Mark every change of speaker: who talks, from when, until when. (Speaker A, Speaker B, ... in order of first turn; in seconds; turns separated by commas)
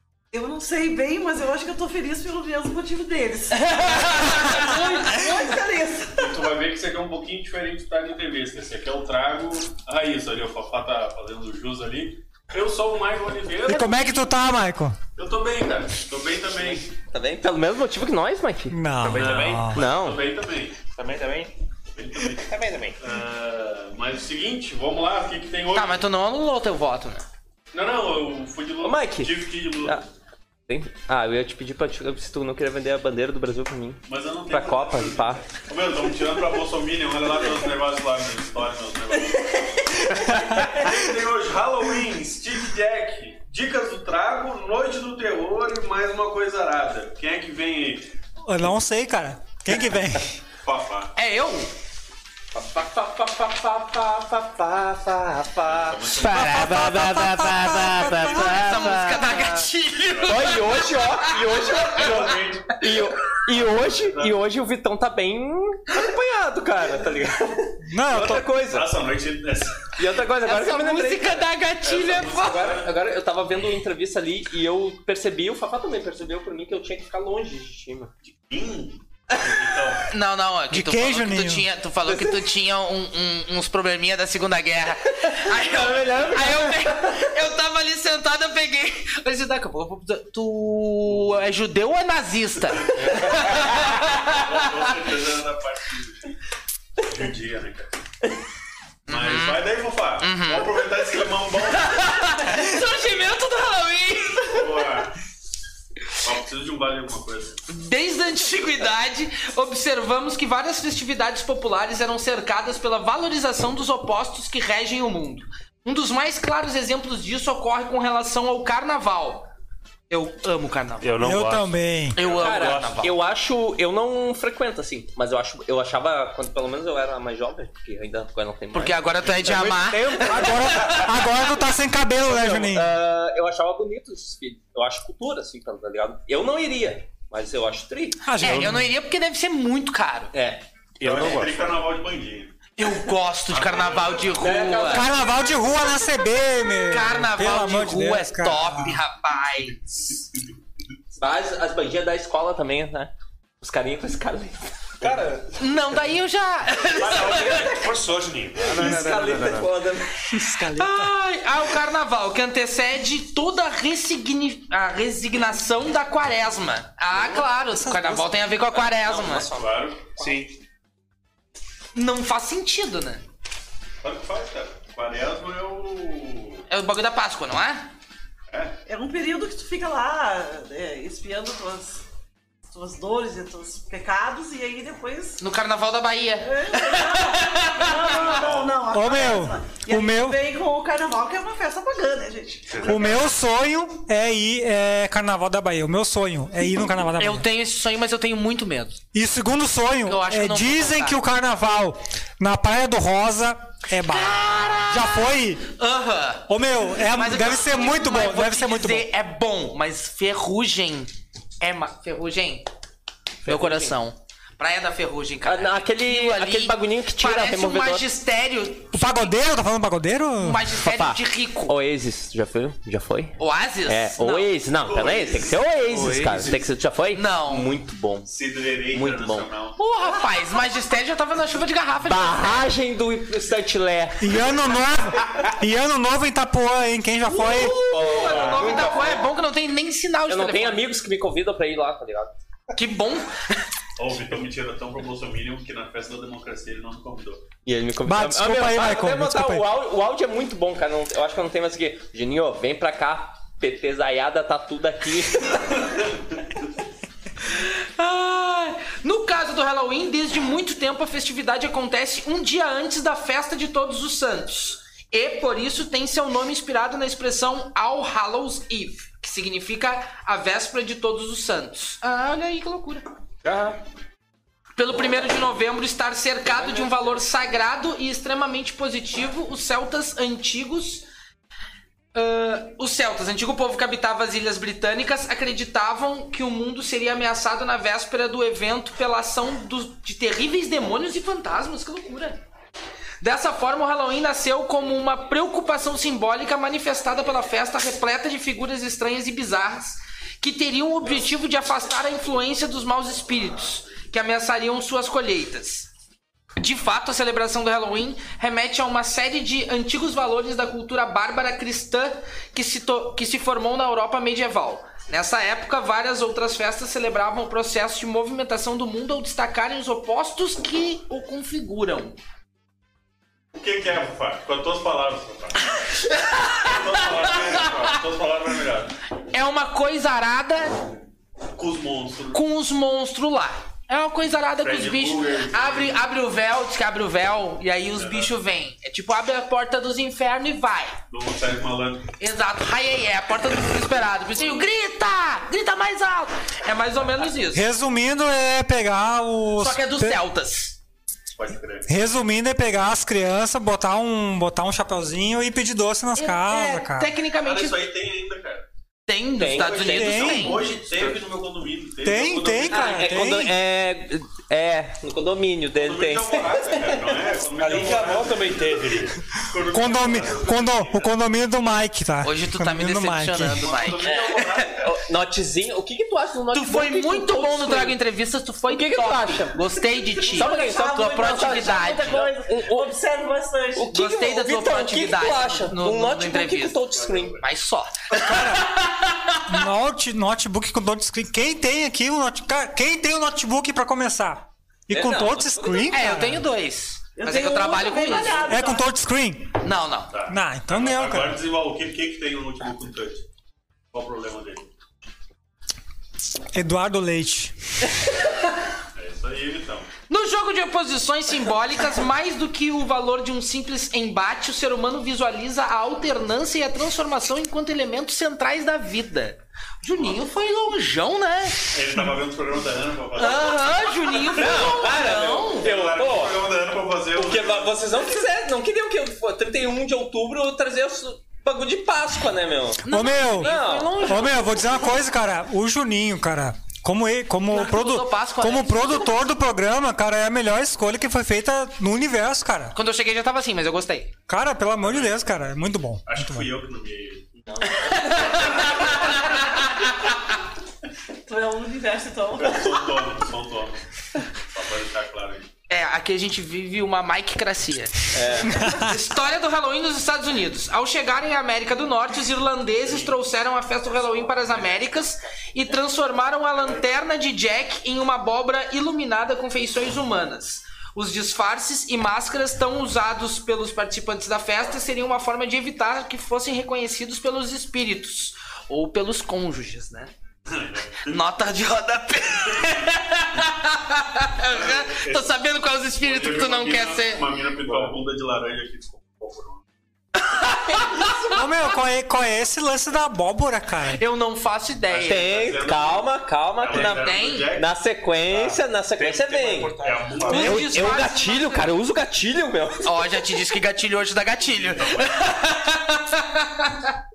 Speaker A: 0.3-6.5, Speaker B: 3.6-5.1, Speaker C: 6.1-14.4, Speaker D: 13.7-15.0, Speaker C: 15.2-16.9, Speaker E: 17.1-18.8, Speaker D: 18.7-19.8, Speaker F: 19.0-19.7, Speaker C: 19.0-20.8, Speaker E: 19.7-20.2, Speaker F: 20.9-21.5, Speaker C: 21.9-26.0, Speaker F: 22.3-23.0, Speaker B: 25.7-27.2, Speaker C: 27.7-30.1, Speaker E: 28.8-30.0, Speaker E: 30.7-35.5, Speaker C: 34.1-48.1, Speaker D: 40.1-40.7, Speaker D: 48.5-50.4, Speaker C: 50.6-51.1, Speaker B: 51.1-51.7, Speaker E: 52.5-59.6, Speaker C: 55.6-57.2, Speaker D: 56.2-59.1, Speaker B: 58.0-61.6, Speaker C: 60.0-60.5, Speaker E: 60.2-68.9, Speaker C: 61.6-62.9, Speaker C: 63.5-64.3, Speaker D: 67.8-68.5, Speaker C: 68.6-69.8, Speaker E: 70.0-71.4, Speaker B: 70.4-72.7, Speaker C: 71.8-72.9, Speaker E: 72.2-78.1, Speaker C: 78.3-80.1, Speaker B: 80.1-94.7, Speaker D: 80.7-81.7, Speaker E: 82.1-82.3, Speaker E: 85.3-87.0, Speaker C: 85.5-86.4, Speaker C: 93.0-96.3, Speaker C: 97.0-97.9, Speaker B: 99.1-99.6, Speaker C: 99.1-102.2, Speaker B: 100.2-100.8, Speaker B: 101.8-104.6, Speaker C: 104.4-105.1, Speaker C: 106.2-107.6, Speaker B: 107.7-119.5, Speaker B: 120.1-121.1, Speaker F: 121.0-121.7, Speaker D: 121.2-122.2, Speaker B: 122.2-123.1, Speaker E: 122.4-131.3, Speaker F: 122.6-122.9, Speaker B: 128.7-131.0, Speaker D: 130.2-132.9, Speaker E: 132.2-138.2, Speaker D: 138.2-138.9, Speaker B: 138.4-140.3, Speaker E: 140.3-140.6, Speaker F: 141.0-141.5, Speaker C: 141.0-142.5, Speaker B: 142.8-145.1, Speaker C: 143.5-144.6, Speaker E: 144.4-145.1, Speaker D: 144.9-149.0, Speaker B: 146.9-149.8, Speaker C: 149.9-150.5, Speaker E: 151.2-155.1, Speaker F: 155.0-155.5, Speaker B: 155.6-157.7, Speaker F: 157.0-159.7, Speaker E: 157.0-157.9, Speaker E: 158.6-160.2, Speaker D: 160.3-161.1, Speaker B: 160.7-169.5, Speaker D: 167.2-168.3, Speaker C: 169.0-170.2, Speaker F: 170.2-170.5, Speaker B: 171.9-173.2, Speaker C: 174.0-176.6, Speaker B: 176.7-177.9, Speaker C: 178.5-178.8, Speaker A: 178.9-182.0, Speaker A: 182.7-185.4, Speaker B: 185.4-188.3, Speaker A: 186.4-193.1, Speaker C: 187.6-188.9, Speaker D: 188.9-190.4, Speaker F: 192.7-193.3, Speaker D: 192.8-197.4, Speaker B: 197.2-199.0, Speaker D: 199.1-205.6, Speaker B: 200.1-201.2, Speaker B: 204.1-212.7, Speaker D: 206.5-209.1, Speaker E: 213.4-213.9, Speaker B: 213.4-219.3, Speaker E: 215.4-218.0, Speaker D: 218.9-220.7, Speaker B: 220.4-221.7, Speaker E: 220.7-228.3, Speaker B: 223.4-224.5, Speaker C: 224.8-226.1, Speaker F: 225.9-226.6, Speaker B: 227.1-227.7, Speaker C: 228.2-229.8, Speaker E: 228.9-229.5, Speaker B: 229.8-232.6, Speaker E: 232.0-234.3, Speaker D: 234.2-237.8, Speaker B: 237.2-240.8, Speaker E: 237.7-239.2, Speaker C: 238.2-239.1, Speaker E: 240.3-242.3, Speaker B: 242.7-243.6, Speaker C: 244.0-247.4, Speaker E: 247.6-256.0, Speaker D: 248.0-249.6, Speaker B: 257.4-273.1, Speaker B: 274.8-281.0, Speaker E: 276.5-277.0, Speaker B: 282.1-292.4, Speaker B: 293.2-305.9, Speaker B: 306.6-322.1, Speaker C: 323.5-325.6, Speaker B: 325.8-327.9, Speaker C: 326.6-328.9, Speaker B: 329.3-330.8, Speaker C: 331.5-332.4, Speaker B: 332.3-341.0, Speaker C: 334.6-336.1, Speaker C: 337.9-338.3, Speaker C: 341.1-342.1, Speaker B: 342.2-347.6, Speaker C: 344.3-344.7, Speaker D: 347.5-350.2, Speaker B: 349.6-350.8, Speaker C: 351.4-352.0, Speaker D: 351.9-357.1, Speaker B: 356.1-357.8, Speaker C: 357.4-358.6, Speaker B: 359.1-360.7, Speaker E: 359.4-360.5, Speaker C: 359.5-363.3, Speaker D: 359.9-360.6, Speaker D: 362.0-363.5, Speaker E: 362.7-367.2, Speaker C: 365.7-369.0, Speaker F: 367.6-369.2, Speaker C: 369.5-371.1, Speaker D: 369.7-373.7, Speaker B: 372.2-374.4, Speaker C: 373.6-375.0, Speaker E: 374.0-378.0, Speaker B: 376.5-382.3, Speaker E: 378.7-379.6, Speaker A: 379.9-383.9, Speaker E: 380.3-382.9, Speaker E: 383.7-387.4, Speaker B: 383.9-386.8, Speaker C: 386.8-387.5, Speaker B: 387.4-389.6, Speaker D: 388.2-388.6, Speaker D: 389.5-396.4, Speaker E: 394.9-396.0, Speaker B: 395.9-398.6, Speaker A: 397.1-398.9, Speaker D: 398.3-399.6, Speaker B: 399.6-400.1, Speaker C: 400.1-403.2, Speaker D: 400.3-401.4, Speaker C: 403.9-404.7, Speaker D: 406.5-407.5, Speaker C: 408.9-409.9, Speaker B: 410.1-421.6, Speaker C: 421.7-427.8, Speaker B: 423.2-425.7, Speaker E: 424.3-426.4, Speaker E: 427.1-432.8, Speaker B: 432.8-434.7, Speaker D: 432.9-442.7, Speaker E: 433.4-434.1, Speaker B: 437.5-439.2, Speaker B: 442.7-444.1, Speaker D: 444.3-446.5, Speaker C: 444.8-445.3, Speaker C: 446.1-447.6, Speaker E: 447.5-449.0, Speaker B: 447.7-450.4, Speaker C: 448.2-449.2, Speaker A: 451.2-453.1, Speaker C: 452.4-455.5, Speaker B: 455.7-480.1, Speaker E: 458.1-458.6, Speaker D: 458.5-458.9, Speaker C: 462.8-463.2, Speaker C: 463.9-465.0, Speaker C: 480.5-481.2, Speaker B: 481.0-487.2, Speaker C: 484.5-485.4, Speaker C: 486.0-489.6, Speaker F: 487.7-487.9, Speaker B: 490.2-491.4, Speaker E: 490.7-491.4, Speaker D: 491.3-494.0, Speaker B: 493.9-495.3, Speaker E: 494.9-503.1, Speaker C: 495.0-497.7, Speaker B: 496.7-497.5, Speaker F: 498.3-500.7, Speaker C: 499.8-500.7, Speaker B: 500.3-501.7, Speaker B: 502.8-506.9, Speaker C: 504.4-505.4